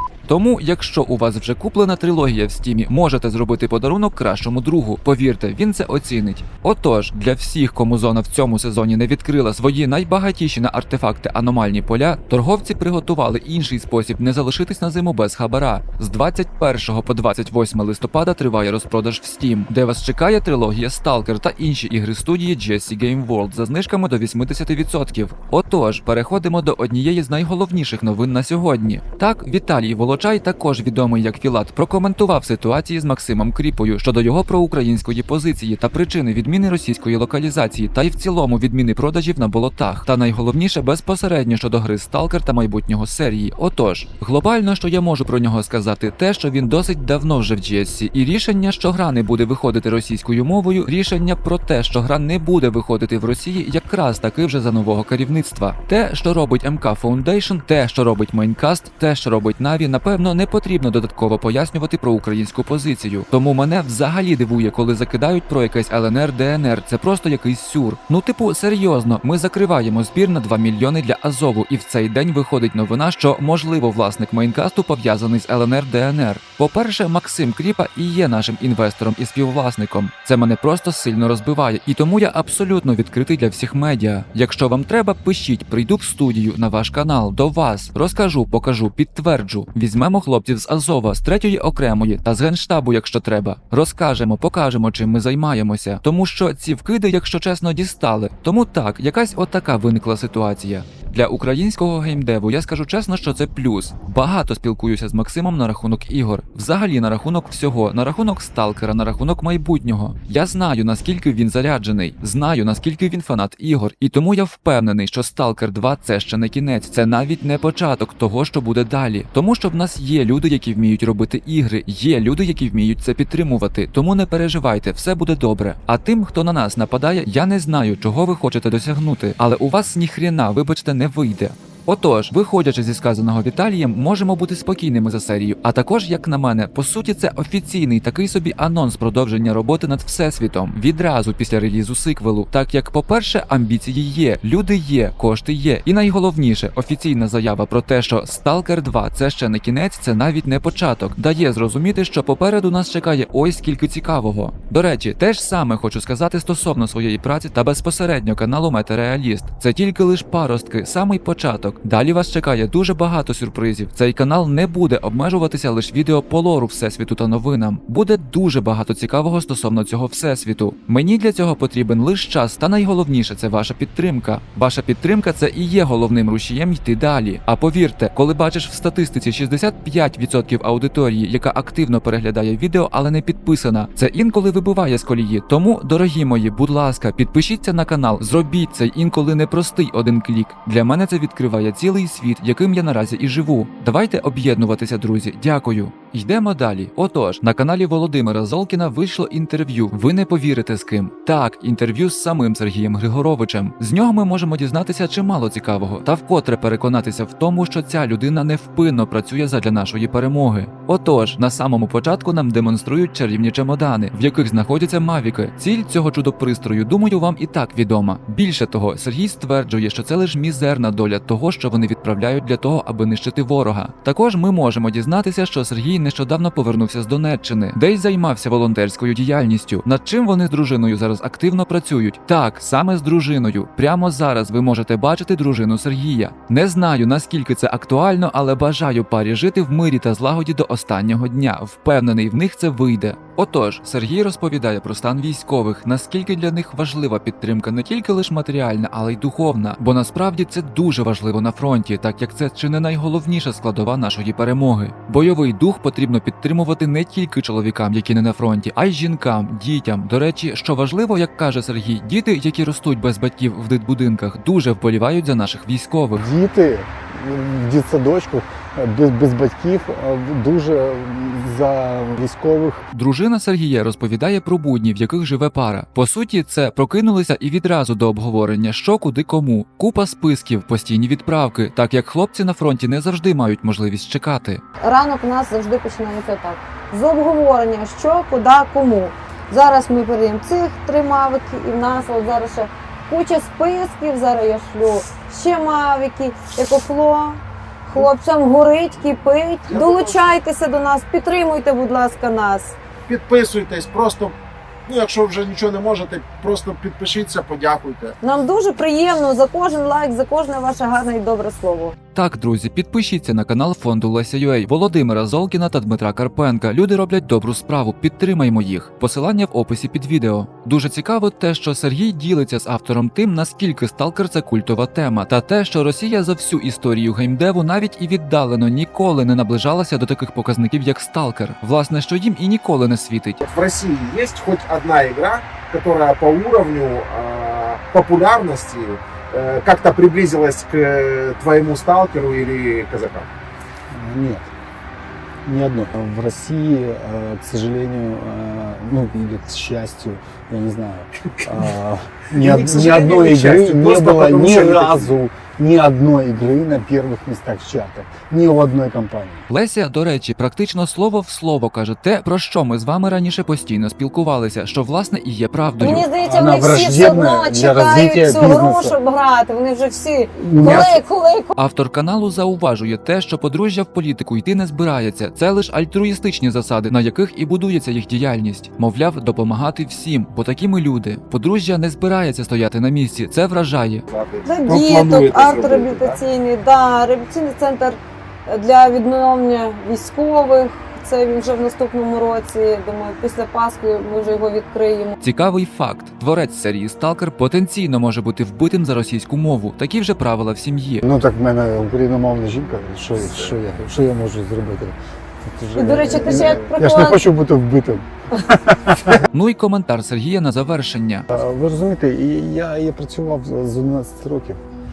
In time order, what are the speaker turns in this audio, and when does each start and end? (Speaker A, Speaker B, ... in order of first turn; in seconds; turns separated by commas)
Speaker A: 0.3-266.2, Speaker B: 266.1-272.9, Speaker A: 272.9-284.6, Speaker C: 284.8-302.8, Speaker D: 299.7-300.2, Speaker D: 303.1-304.3, Speaker D: 304.9-308.1, Speaker C: 308.2-311.9, Speaker A: 312.1-333.4, Speaker D: 333.4-343.3, Speaker B: 343.9-344.5, Speaker B: 345.4-359.4, Speaker D: 352.4-355.1, Speaker A: 359.5-366.1, Speaker C: 365.8-371.5, Speaker B: 366.2-369.0, Speaker B: 370.4-371.0, Speaker A: 371.5-384.0, Speaker D: 384.1-386.2, Speaker C: 384.4-395.2, Speaker A: 395.2-401.0, Speaker B: 401.0-409.2, Speaker C: 405.7-407.2, Speaker A: 409.3-411.3, Speaker B: 411.3-414.6